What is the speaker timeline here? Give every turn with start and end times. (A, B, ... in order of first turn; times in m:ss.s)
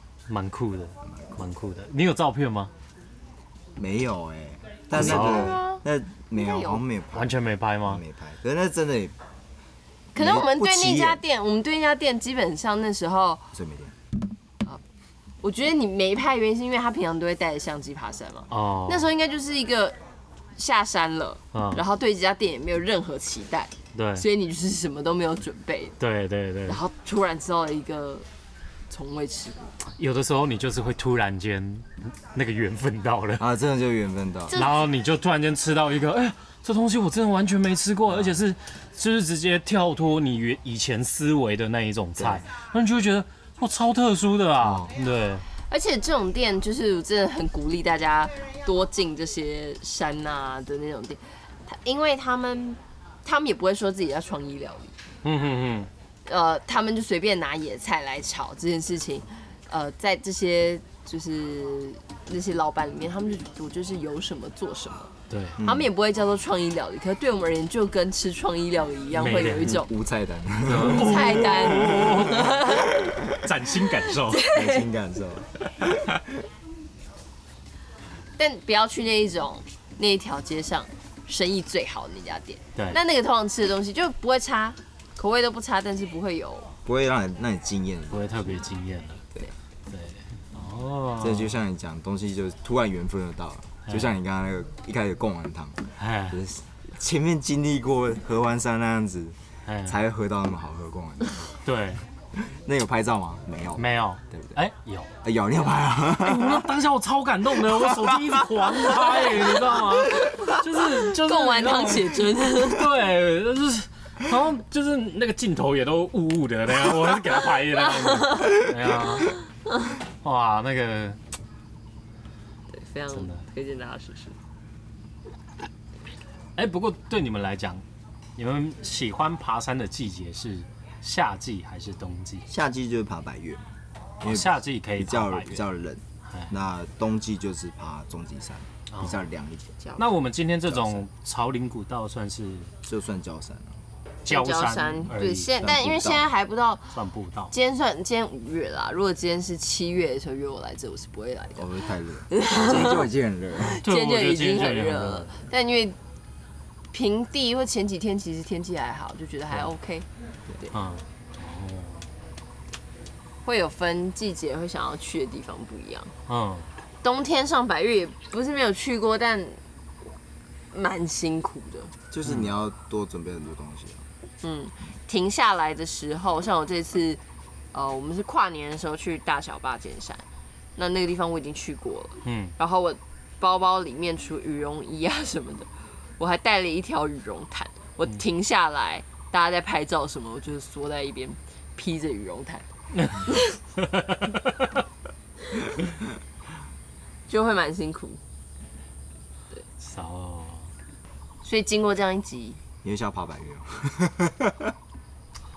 0:00.3-0:02.7 A
0:01.0-0:01.4 B
0:03.8-0:09.2 B
0:04.9-0:05.6 A
0:04.9-0:06.8 C
0:07.1-0:08.0 A
0:10.1-0:11.2 B
0:10.1-0:13.5 C
0:13.5-0:13.9 B
0:15.4-0:20.0 C
0:18.5-0:19.1 A
0:20.6-0:25.9 C
0:21.5-0:21.8 A
0:23.9-0:24.2 A
0:26.0-0:26.8 A
0:26.6-0:28.3 C
0:28.9-0:29.8 C
0:30.0-0:33.4 A
0:33.4-0:34.6 B
0:34.5-0:34.8 C
0:34.5-0:45.4 A
0:38.1-0:38.4 B
0:42.2-0:42.4 B
0:44.6-0:44.9 B
0:45.7-0:54.9 C
0:55.2-0:55.9 A
0:56.2-1:09.9 C
1:05.3-1:05.6 A
1:05.6-1:05.9 B
1:09.2-1:09.8 A
1:09.4-1:13.5 B
1:10.6-1:14.5 A
1:10.8-1:12.9 C
1:14.3-1:14.9 C
1:14.4-1:16.4 B
1:18.4-1:26.7 C
1:26.8-1:28.6 B
1:28.1-1:29.2 A
1:29.9-1:31.5 A
1:31.2-1:41.6 B
1:36.0-1:36.4 A
1:39.6-1:40.0 A
1:41.6-1:42.0 A
1:42.3-1:44.6 B
1:43.8-1:45.1 A
1:45.2-1:46.7 B
1:46.2-1:59.4 A
1:47.6-1:49.4 B
1:50.2-1:52.9 C
2:00.2-2:01.2 A
2:02.7-2:04.4 C
2:03.1-2:03.4 A
2:06.6-2:07.8 A
2:08.4-2:12.5 A
2:12.5-2:13.6 B
2:14.2-2:19.8 B
2:14.2-2:15.6 A
2:16.3-2:16.5 A
2:18.9-2:19.2 A
2:20.0-2:22.7 A
2:20.7-2:21.0 B
2:22.8-2:23.8 B
2:24.2-2:25.5 A
2:24.3-2:27.0 C
2:25.6-2:26.2 B
2:26.9-2:27.5 A
2:27.5-2:31.7 C
2:31.6-2:33.8 B
2:32.3-2:33.0 C
2:33.6-2:36.0 C
2:33.8-2:35.4 A
2:36.9-2:40.1 C
2:40.7-2:42.1 A
2:43.4-2:46.1 C
2:46.3-2:46.7 A
2:47.0-2:49.6 C
2:50.7-2:51.9 C
2:52.1-2:54.0 B
2:52.2-2:52.5 A
2:54.4-2:57.2 C
2:57.7-3:00.2 C
3:00.8-3:12.7 C
3:02.2-3:02.5 A
3:13.8-3:14.5 A
3:17.3-3:18.2 C
3:19.8-3:20.7 A
3:21.4-3:22.6 C
3:22.8-3:24.8 B